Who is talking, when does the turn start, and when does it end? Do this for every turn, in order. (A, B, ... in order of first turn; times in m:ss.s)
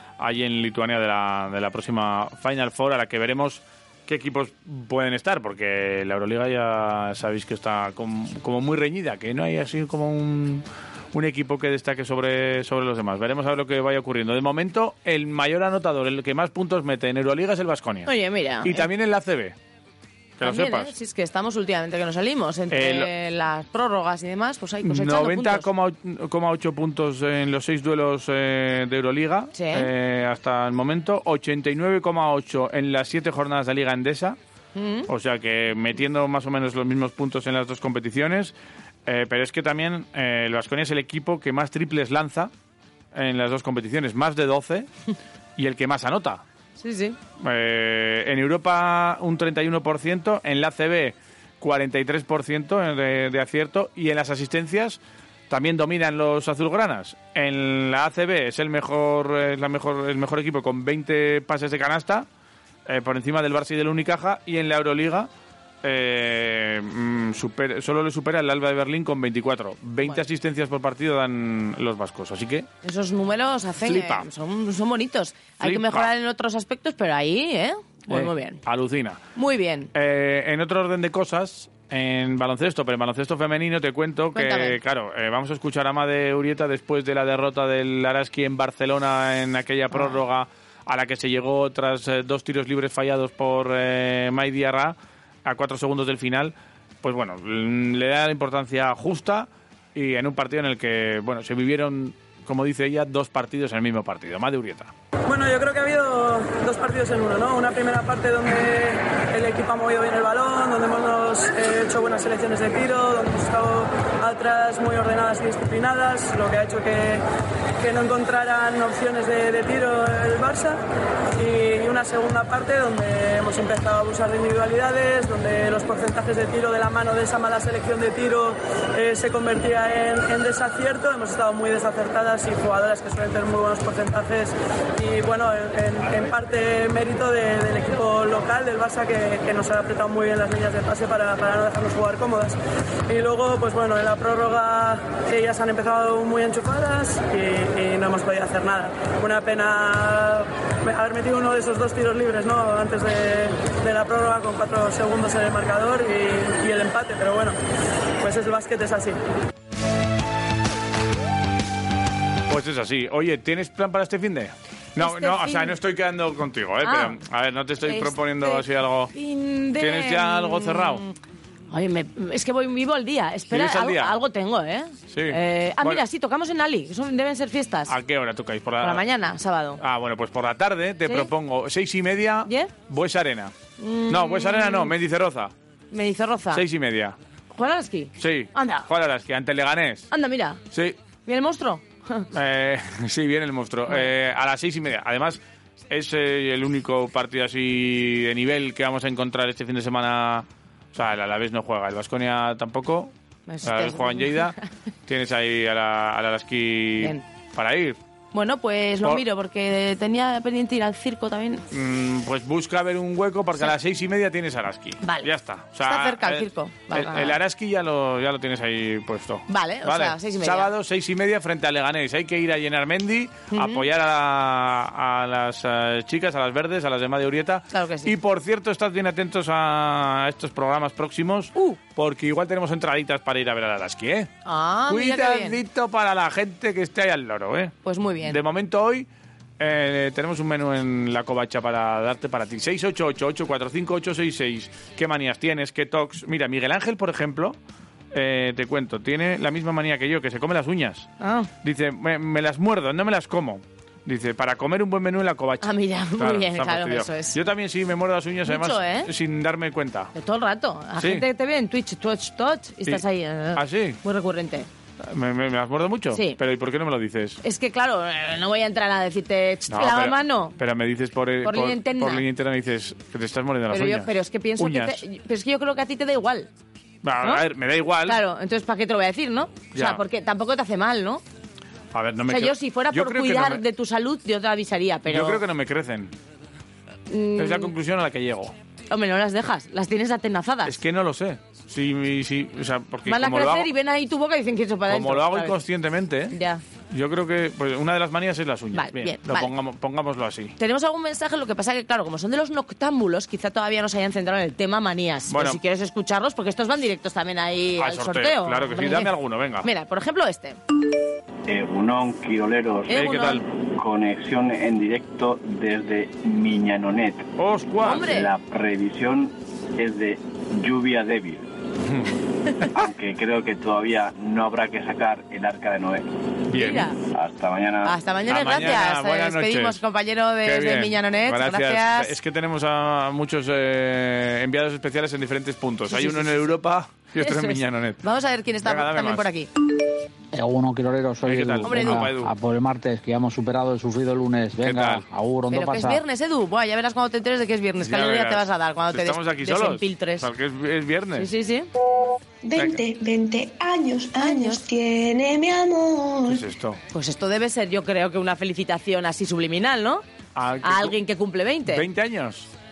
0:00.2-0:18.1 A
0:18.0-0:18.9 B
0:18.6-0:19.5 A
0:20.4-0:20.9 A
0:20.4-0:25.7 B
0:22.7-0:23.1 A
0:24.8-0:34.4 A
0:29.5-0:29.9 B
0:34.7-0:35.1 B
0:35.1-0:38.5 A
0:39.0-0:42.5 A
0:43.1-0:44.9 A
0:45.6-0:46.4 A
0:46.8-0:47.2 B
0:47.4-1:02.2 A
1:02.9-1:05.3 A
1:05.8-1:12.7 A
1:12.8-1:18.6 B
1:13.8-1:14.2 A
1:15.6-1:16.1 A
1:18.1-1:19.2 A
1:19.4-1:19.9 B
1:19.9-1:44.9 A
1:24.3-1:24.8 B
1:45.3-1:57.2 C
1:57.8-2:00.8 C
2:01.4-2:22.6 C
2:23.1-2:37.6 C
2:38.2-2:39.2 C
2:42.5-2:49.1 A
2:45.0-2:45.8 B
2:46.8-2:47.2 B
2:47.8-2:48.6 B
2:49.1-2:51.1 B
2:49.8-2:51.0 A
2:51.7-2:57.9 B
2:53.5-2:54.2 A
2:55.1-2:56.0 A
2:57.9-2:59.0 A
2:58.8-2:59.8 B
2:59.8-3:03.5 A
3:02.4-3:02.7 B
3:03.8-3:04.9 B
3:04.1-3:05.5 A
3:05.9-3:06.6 B
3:06.5-3:07.2 A
3:07.5-3:08.9 B
3:08.2-3:10.1 A
3:10.1-3:10.6 B
3:11.2-3:12.3 B
3:12.3-3:23.1 A
3:23.5-3:24.5 B
3:23.6-3:24.6 A
3:25.1-3:28.0 A
3:28.3-3:31.6 B
3:31.7-3:54.3 A
3:35.0-3:35.3 B
3:35.8-3:37.4 B
3:39.5-3:40.7 B
3:43.5-3:43.8 B
3:47.7-3:48.1 B
3:54.4-3:55.6 B
3:54.9-3:59.1 A
3:57.8-3:58.4 B
3:59.6-4:07.6 A
4:08.1-4:11.1 A
4:11.2-4:11.5 B
4:11.6-4:20.1 A
4:15.6-4:17.4 B
4:18.5-4:19.1 B
4:20.1-4:24.7 B
4:21.0-4:21.2 A
4:23.6-4:24.0 A
4:25.1-4:27.4 A
4:26.1-4:26.4 B
4:27.4-4:30.6 B
4:29.7-4:35.0 A
4:31.4-4:32.2 B
4:33.7-4:36.5 B
4:37.0-4:38.2 A
4:38.0-4:41.2 B
4:39.7-4:40.0 A
4:41.9-4:43.6 A
4:42.3-4:45.4 B
4:45.1-4:46.1 A
4:47.1-4:47.7 B
4:47.4-4:48.5 A
4:48.9-4:50.7 B
4:50.6-4:53.7 A
4:53.1-4:55.5 B
4:54.9-4:56.3 A
4:56.3-4:56.6 B
4:56.9-5:00.6 A
4:58.7-4:59.5 B
5:00.6-5:09.1 B
5:05.3-5:05.6 A
5:07.8-5:09.7 A
5:09.6-5:10.6 B
5:11.5-5:13.0 D
5:12.9-5:13.4 B
5:12.9-5:13.4 A
5:13.8-5:17.3 D
5:17.4-5:18.1 A
5:17.8-5:18.3 B
5:18.1-5:21.4 D
5:21.9-5:22.6 A
5:22.7-5:26.0 D
5:26.5-5:26.9 A
5:26.5-5:27.0 B
5:27.1-5:28.0 D
5:27.8-5:32.1 B
5:28.2-5:29.8 A
5:30.4-5:38.0 A
5:35.9-5:36.5 B
5:37.2-5:39.5 B
5:38.6-5:39.2 A
5:40.3-5:46.0 E
5:41.2-5:42.3 A
5:41.6-5:42.1 B
5:44.6-5:45.0 A
5:45.5-5:50.3 B
5:47.8-5:51.3 A
5:51.2-5:51.7 B
5:52.4-5:56.4 F
5:52.5-5:52.8 A
5:54.2-5:54.6 B
5:56.3-5:56.8 A
5:56.9-6:00.0 B
6:00.3-6:01.0 A
6:00.6-6:01.8 B
6:01.7-6:02.5 A